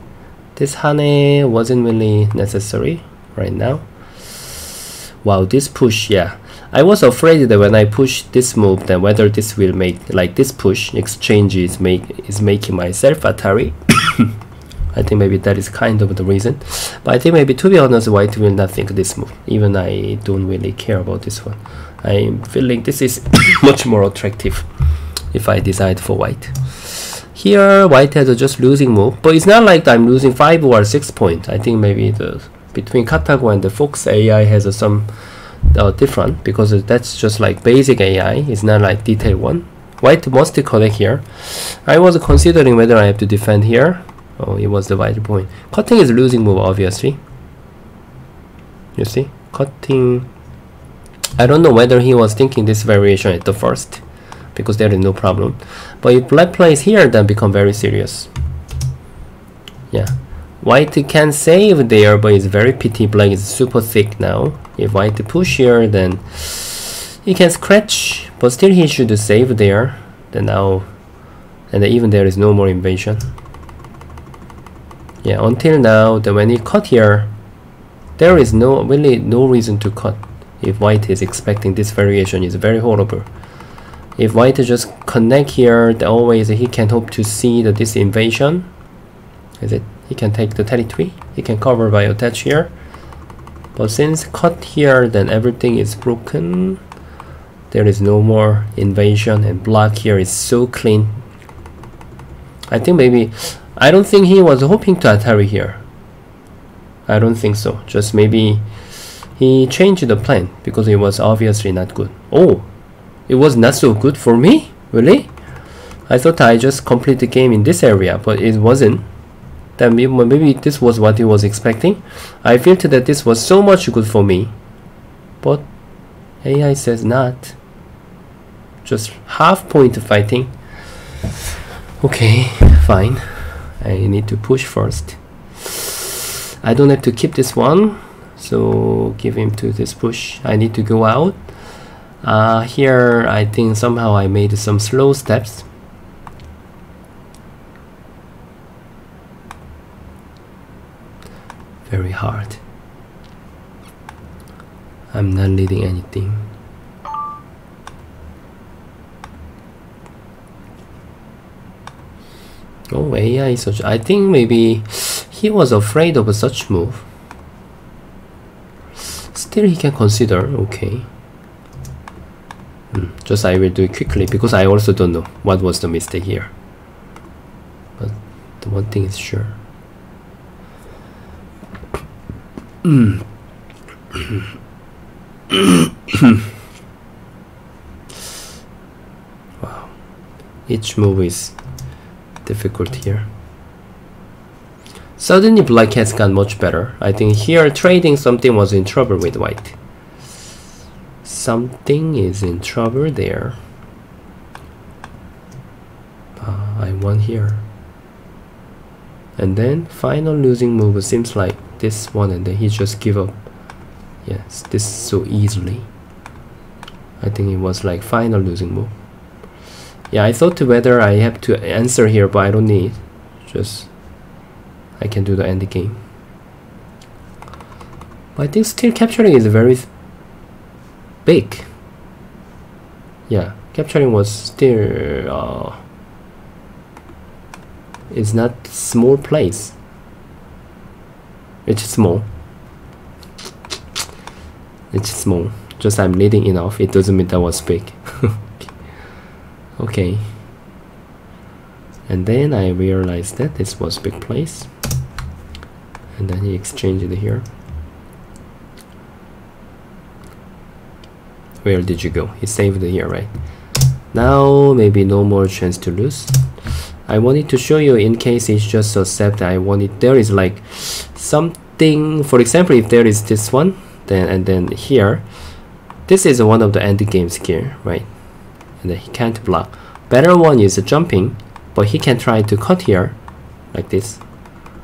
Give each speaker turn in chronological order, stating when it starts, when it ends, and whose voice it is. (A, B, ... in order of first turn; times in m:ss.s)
0:00.6-0:04.5 A
0:05.2-0:14.3 A
0:14.9-0:24.7 A
0:25.3-0:35.1 A
0:35.6-0:47.2 A
0:49.0-0:50.3 A
0:51.4-0:54.0 A
0:54.5-0:58.3 A
0:59.9-1:10.9 A
1:11.7-1:13.3 A
1:15.2-1:17.3 A
1:18.2-1:23.3 A
1:24.2-1:28.7 A
1:29.6-1:32.7 A
1:33.8-1:36.8 A
1:37.7-1:41.2 A
1:42.7-1:45.8 A
1:47.1-1:48.6 A
1:49.4-1:52.7 A
1:53.3-1:55.3 A
1:56.1-1:59.0 A
1:59.8-2:04.5 A
2:05.4-2:05.7 A
2:06.4-2:07.6 A
2:08.8-2:10.5 A
2:12.0-2:21.4 A
2:22.2-2:25.6 A
2:31.8-2:32.6 A
2:35.1-2:36.5 A
2:42.9-2:47.0 A
2:49.3-2:51.1 A
2:52.9-2:56.5 A
2:58.0-2:59.6 A
3:02.8-3:03.2 A
3:04.1-3:04.4 A
3:05.5-3:06.4 A
3:09.6-3:09.9 A
3:10.7-3:11.6 A
3:12.4-3:13.3 A
3:15.2-3:19.8 A
3:21.2-3:23.6 A
3:26.4-3:27.6 A
3:29.4-3:33.4 A
3:34.2-3:35.9 A
3:37.2-3:38.9 A
3:40.1-3:43.9 A
3:45.0-3:46.0 A
3:48.4-3:49.9 A
3:51.2-3:51.7 A
3:53.3-3:55.8 A
3:58.1-3:59.8 A
4:01.6-4:02.2 A
4:04.9-4:08.7 A
4:09.8-4:10.3 A
4:12.1-4:14.7 A
4:16.1-4:17.4 A
4:21.6-4:23.3 A
4:24.1-4:26.5 A
4:27.1-4:35.2 A
4:36.1-4:38.1 A
4:38.8-4:43.2 A
4:43.7-4:44.2 A